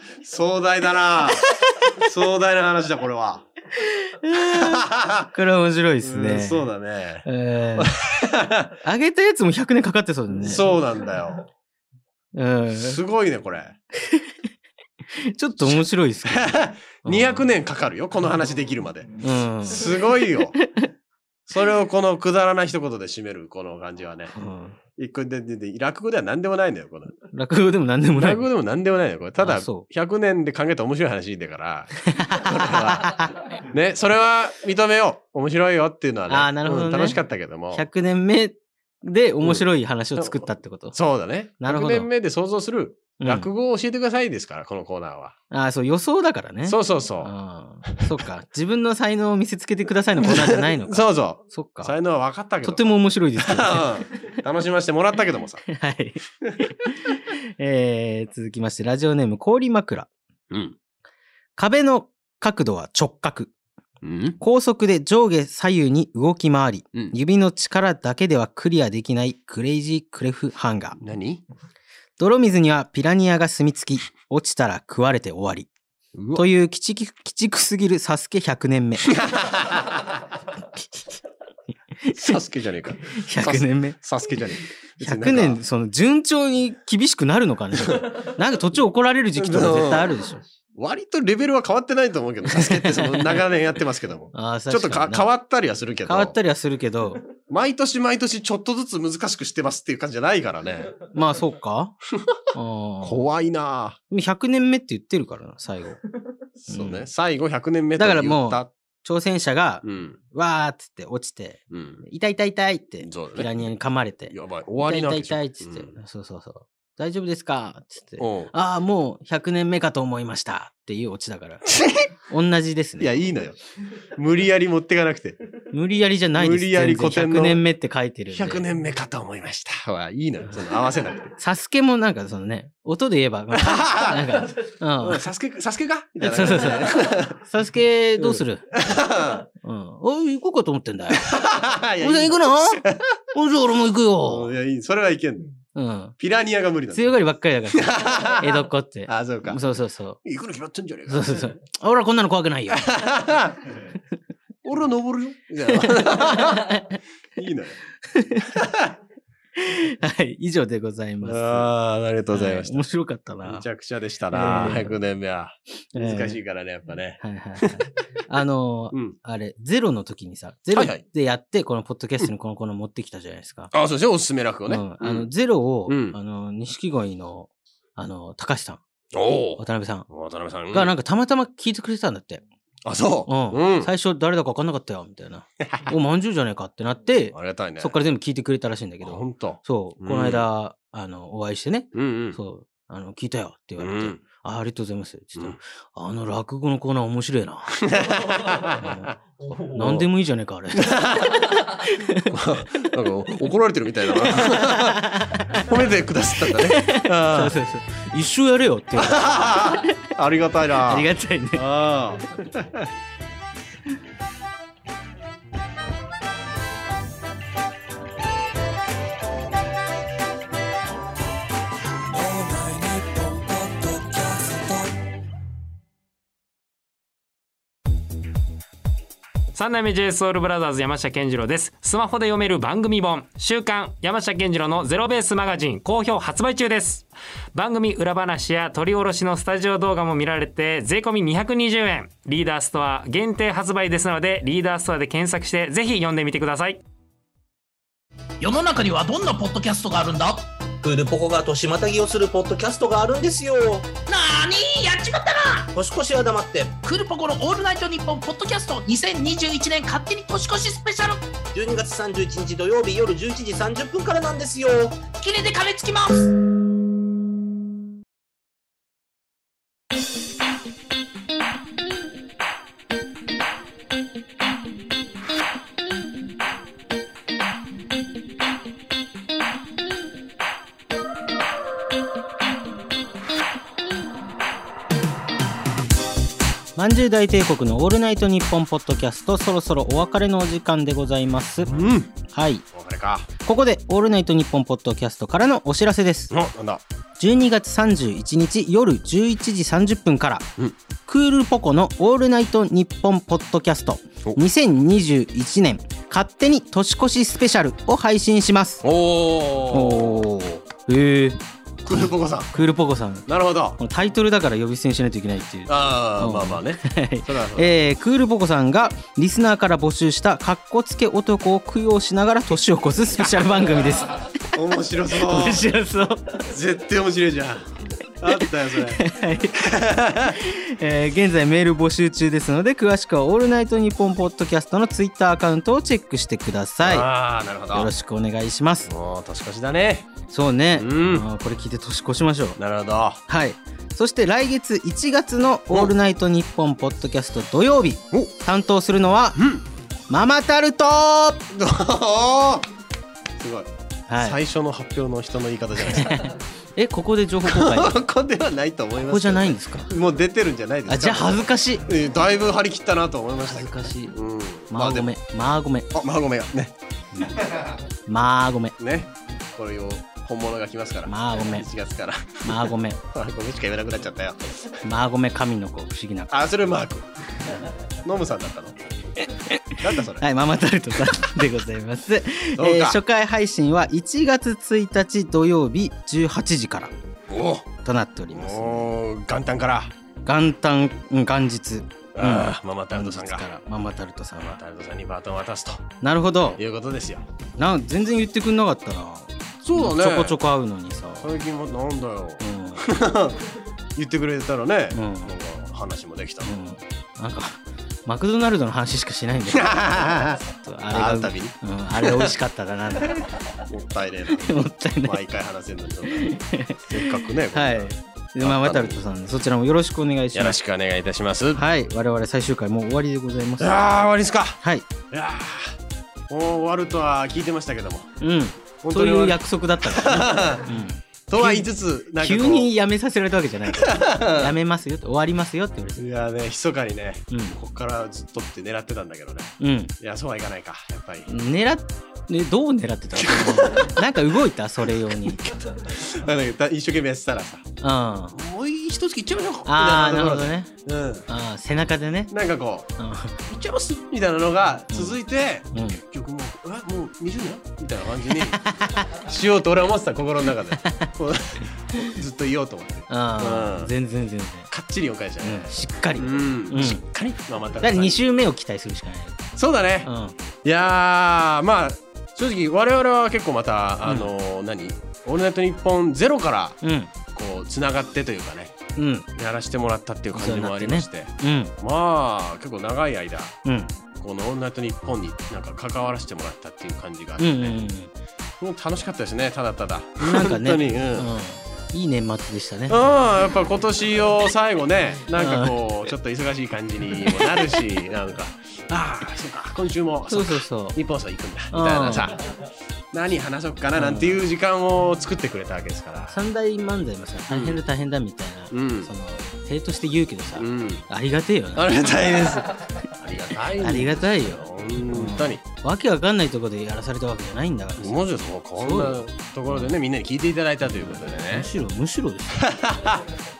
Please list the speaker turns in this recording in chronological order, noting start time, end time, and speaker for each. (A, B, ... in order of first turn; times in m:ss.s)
0:00.2-0:03.4 A
0:03.9-0:04.8 B
0:04.4-0:05.3 A
0:05.3-0:06.6 B
0:06.0-0:08.7 A
0:07.2-0:07.9 B
0:08.8-0:10.6 B
0:10.4-0:11.5 A
0:12.3-0:13.0 B
0:12.8-0:13.8 A
0:15.3-0:17.4 B
0:16.3-0:19.1 A
0:19.2-0:19.9 B
0:19.7-0:20.5 A
0:20.6-0:20.9 B
0:21.5-0:24.3 A
0:24.3-0:24.8 B
0:25.0-0:27.1 A
0:27.3-0:28.4 B
0:28.2-0:37.8 A
0:29.4-0:29.9 B
0:32.1-0:33.3 B
0:36.3-0:37.2 B
0:37.7-0:41.0 B
0:40.9-0:45.4 A
0:41.6-0:42.1 B
0:43.2-0:43.5 B
0:45.5-0:51.9 B
0:46.6-0:47.3 A
0:50.2-0:52.8 A
0:52.6-0:53.9 B
0:53.4-0:55.6 A
0:55.7-1:00.1 B
1:00.5-1:00.7 A
1:01.6-1:03.5 B
1:04.0-1:04.4 A
1:04.4-1:11.0 B
1:11.0-1:11.4 A
1:12.2-1:15.7 B
1:16.1-1:16.4 A
1:16.3-1:19.1 B
1:19.2-1:20.0 A
1:22.1-1:22.4 B
1:22.2-1:25.6 A
1:23.1-1:24.0 B
1:25.0-1:30.4 B
1:29.4-1:30.1 A
1:30.8-1:36.3 A
1:32.6-1:33.4 B
1:34.3-1:35.3 B
1:36.0-1:37.2 B
1:37.5-1:40.9 A
1:41.1-1:41.9 B
1:42.5-1:43.2 B
1:43.0-1:44.0 A
1:44.1-1:46.0 B
1:46.6-1:48.7 A
1:46.7-1:47.1 B
1:48.0-2:01.6 B
1:49.8-1:50.2 A
1:51.7-1:52.0 A
1:53.0-1:53.5 A
1:54.3-1:55.9 A
1:58.2-1:58.5 A
2:01.7-2:02.0 A
2:02.3-2:03.1 B
2:03.0-2:03.6 A
2:04.2-2:05.4 A
2:05.7-2:08.6 B
2:06.4-2:07.6 A
2:08.3-2:11.3 A
2:11.4-2:15.2 B
2:13.6-2:14.2 A
2:15.0-2:17.4 A
2:16.2-2:18.7 B
2:18.2-2:19.4 A
2:19.6-2:21.3 B
2:21.2-2:23.0 A
2:22.0-2:22.8 B
2:23.3-2:24.5 B
2:24.2-2:25.5 A
2:25.7-2:26.2 B
2:26.2-2:27.1 A
2:26.9-2:30.2 B
2:27.7-2:29.6 A
2:30.2-2:31.5 A
2:31.1-2:32.8 B
2:32.8-2:33.6 A
2:34.6-2:36.7 A
2:37.4-2:37.8 A
2:38.1-2:38.4 B
2:38.6-2:38.9 A
2:39.6-2:41.7 B
2:41.2-2:42.8 A
2:42.3-2:43.6 B
2:43.4-2:47.7 A
2:44.3-2:45.0 B
2:45.9-2:46.4 B
2:47.2-2:53.7 B
2:50.7-2:51.0 A
2:53.7-2:55.3 A
2:54.7-2:58.8 B
2:55.8-2:56.2 A
2:59.1-3:00.9 A
2:59.6-3:00.1 B
3:00.7-3:02.4 B
3:02.8-3:03.9 A
3:03.3-3:17.8 B
3:05.6-3:05.9 A
3:07.3-3:07.9 A
3:09.0-3:10.4 A
3:11.9-3:12.4 A
3:13.8-3:14.2 A
3:17.8-3:19.1 A
3:18.8-3:19.1 B
3:19.6-3:22.3 B
3:19.7-3:20.1 A
3:20.8-3:21.4 A
3:22.3-3:27.6 A
3:24.6-3:25.6 B
3:26.5-3:29.8 B
3:29.0-3:32.9 A
3:30.9-3:31.6 B
3:49.5-4:06.8 C
4:08.4-4:10.4 D
4:10.8-4:13.9 E
4:14.1-4:15.7 D
4:15.7-4:16.8 E
4:16.8-4:21.3 D
4:21.5-4:25.1 E
4:25.0-4:26.3 D
4:46.8-4:51.7 B
4:51.7-4:52.1 A
4:52.3-4:52.6 B
4:52.7-4:53.3 A
4:53.4-4:56.3 B
4:56.3-4:56.8 A
4:57.2-5:00.4 B
5:01.1-5:08.8 B
5:08.8-5:10.2 A
5:09.7-5:11.4 B
5:11.8-5:12.5 A
5:12.0-5:13.2 B
5:13.3-5:13.8 A
5:13.8-5:24.2 B
5:15.7-5:17.7 A
5:24.5-5:25.6 A
5:25.2-5:26.3 B
5:26.4-5:27.7 A
5:28.2-5:29.0 A
5:29.0-5:29.6 B
5:29.6-5:30.4 A
5:30.4-5:37.1 B
5:36.8-5:37.9 A
5:37.7-5:38.9 B
5:38.9-5:40.1 A
5:40.3-5:42.6 B
5:40.8-5:41.2 A
5:42.6-5:43.2 A
5:43.3-5:49.4 B
5:49.4-5:49.6 A
5:50.1-5:51.4 B
5:51.5-5:52.7 A
5:53.4-5:56.2 A
5:54.1-5:54.4 B
5:55.9-5:58.0 B
5:57.4-6:05.1 A
5:59.0-5:59.9 B
6:00.9-6:01.8 B
6:03.4-6:04.2 B
6:04.7-6:05.9 B
6:05.9-6:06.7 A
6:08.1-6:08.7 B
6:08.8-6:14.5 A
6:11.1-6:11.7 B
6:12.4-6:13.0 B
6:14.8-6:16.3 B
6:16.3-6:17.1 A
6:18.0-6:19.1 A
6:19.8-6:20.2 A
6:20.2-6:26.9 B
6:22.6-6:23.0 A
6:27.3-6:27.7 A
6:27.8-6:28.9 B
6:28.3-6:29.9 A
6:30.2-6:34.6 B
6:32.1-6:33.4 A
6:34.5-6:35.8 A
6:36.0-6:36.6 B
6:36.6-6:37.2 A
6:37.6-6:41.3 B
6:39.6-6:40.4 A
6:41.2-6:43.4 A
6:42.4-6:42.8 B
6:44.0-6:46.5 A
6:44.9-6:45.3 B
6:46.4-6:53.3 B
6:49.5-6:52.3 A
6:53.7-6:54.5 A
6:54.4-6:55.2 B
6:55.0-6:56.3 A
6:56.1-6:57.0 B
6:56.9-6:57.9 A
6:57.5-7:00.6 B
6:58.4-6:59.0 A
7:00.3-7:01.6 A
7:01.6-7:03.7 B
7:03.6-7:05.8 A
7:06.3-7:08.1 A
7:08.2-7:16.0 B
7:08.8-7:10.7 A
7:11.3-7:12.7 A
7:13.7-7:14.6 A
7:16.0-7:21.3 A
7:19.6-7:19.9 B
7:21.3-7:25.4 B
7:23.2-7:23.9 A
7:25.2-7:27.6 A
7:27.8-7:28.4 B
7:28.3-7:31.2 A
7:29.6-7:30.7 B
7:31.3-7:32.3 B
7:32.3-7:32.9 A
7:33.0-7:33.3 B
7:33.5-7:43.9 A
7:34.9-7:35.2 B
7:35.7-7:36.0 B
7:43.1-7:44.7 B
7:44.7-7:48.2 A
7:45.4-7:47.0 B
7:47.8-7:49.4 B
7:49.6-7:50.1 A
7:50.0-7:50.3 B
7:50.6-7:56.8 A
7:54.0-7:54.3 B
7:56.8-7:57.1 B
7:57.3-7:58.7 A
7:59.0-7:59.2 B
7:59.3-8:03.6 A
8:00.3-8:01.7 B
8:03.6-8:03.9 B
8:04.2-8:07.5 A
8:07.4-8:08.1 B
8:08.6-8:11.3 A
8:10.2-8:13.0 B
8:12.9-8:22.5 A
8:15.4-8:15.7 B
8:20.3-8:21.0 B
8:21.7-8:22.3 B
8:23.1-8:26.4 A
8:23.9-8:24.4 B
8:26.3-8:31.9 B
8:27.5-8:27.8 A
8:28.7-8:29.1 A
8:30.6-8:31.0 A
8:31.8-8:35.6 A
8:33.8-8:38.2 B
8:38.0-8:41.7 A
8:38.8-8:39.9 B
8:41.0-8:42.6 B
8:42.6-8:43.2 A